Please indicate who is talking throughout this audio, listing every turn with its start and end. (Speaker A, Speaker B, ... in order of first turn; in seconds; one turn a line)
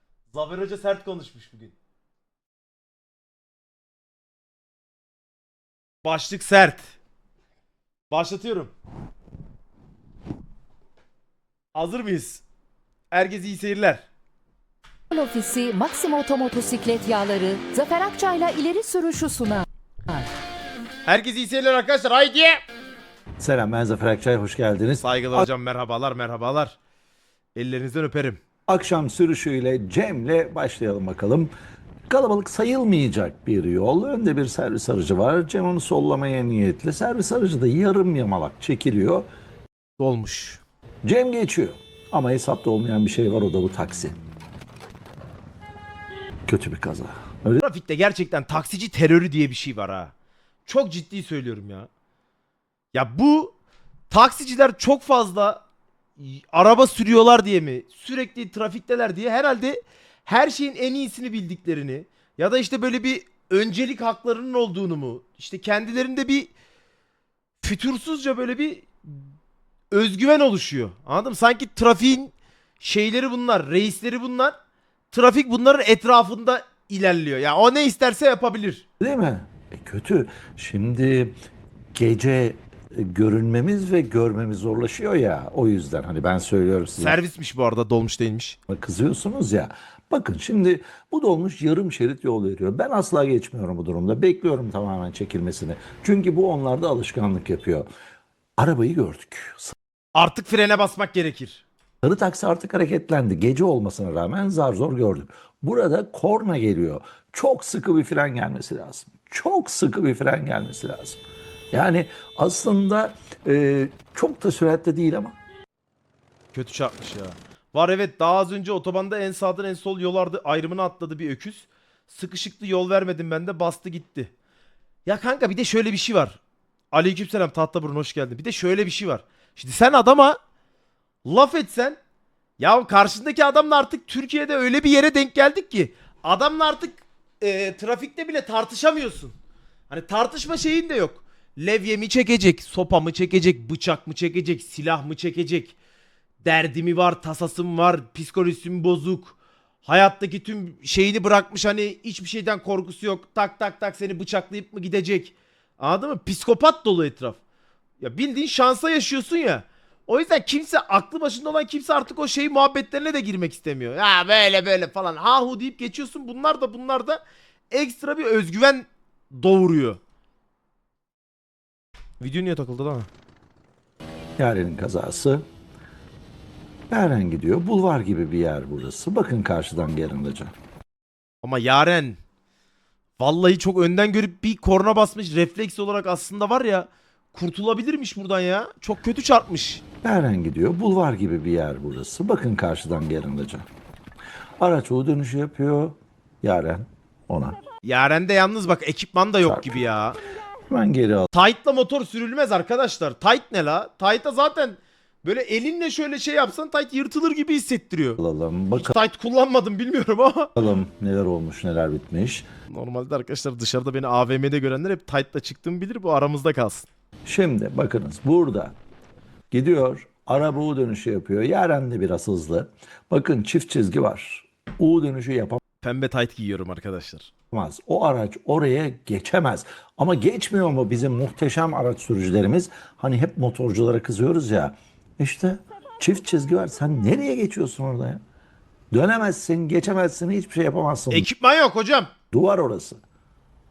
Speaker A: 0.3-1.7
Speaker A: 6.0-6.9
Speaker A: 8.1-8.7
Speaker A: 11.7-12.4
Speaker A: 13.1-14.0
Speaker B: 15.1-20.3
Speaker A: 21.1-22.6
Speaker C: 23.4-25.5
Speaker A: 25.0-26.8
Speaker A: 27.5-28.4
Speaker C: 28.7-31.5
Speaker C: 32.1-39.3
Speaker A: 40.0-40.6
Speaker C: 41.0-44.2
Speaker C: 46.5-47.6
Speaker A: 47.6-50.1
Speaker A: 50.6-51.9
Speaker A: 52.9-53.5
Speaker A: 54.1-55.6
Speaker A: 56.2-66.5
Speaker A: 67.6-69.2
Speaker A: 69.9-74.5
Speaker A: 75.1-78.8
Speaker C: 79.0-81.4
Speaker C: 81.9-87.2
Speaker A: 87.0-88.6
Speaker C: 88.7-97.9
Speaker C: 98.6-99.8
Speaker A: 100.1-101.7
Speaker C: 102.0-111.2
Speaker C: 111.7-115.4
Speaker A: 116.5-124.3
Speaker A: 125.0-126.4
Speaker A: 126.9-130.4
Speaker A: 131.2-132.0
Speaker A: 132.6-139.3
Speaker A: 139.9-145.8
Speaker A: 146.4-157.4
Speaker A: 158.0-170.0
Speaker A: 172.2-173.1
Speaker C: 174.4-175.5
Speaker C: 176.9-180.5
Speaker A: 181.4-182.2
Speaker A: 183.2-189.8
Speaker C: 190.0-193.7
Speaker C: 194.6-197.6
Speaker A: 197.8-200.2
Speaker C: 199.4-199.8
Speaker C: 200.7-201.3
Speaker A: 201.3-208.2
Speaker C: 208.2-209.0
Speaker A: 208.8-210.5
Speaker C: 210.6-212.5
Speaker A: 212.7-216.9
Speaker C: 217.2-218.8
Speaker C: 219.5-225.6
Speaker A: 225.8-227.3
Speaker C: 227.5-238.2
Speaker C: 238.9-241.3
Speaker A: 241.1-242.1
Speaker C: 242.3-243.0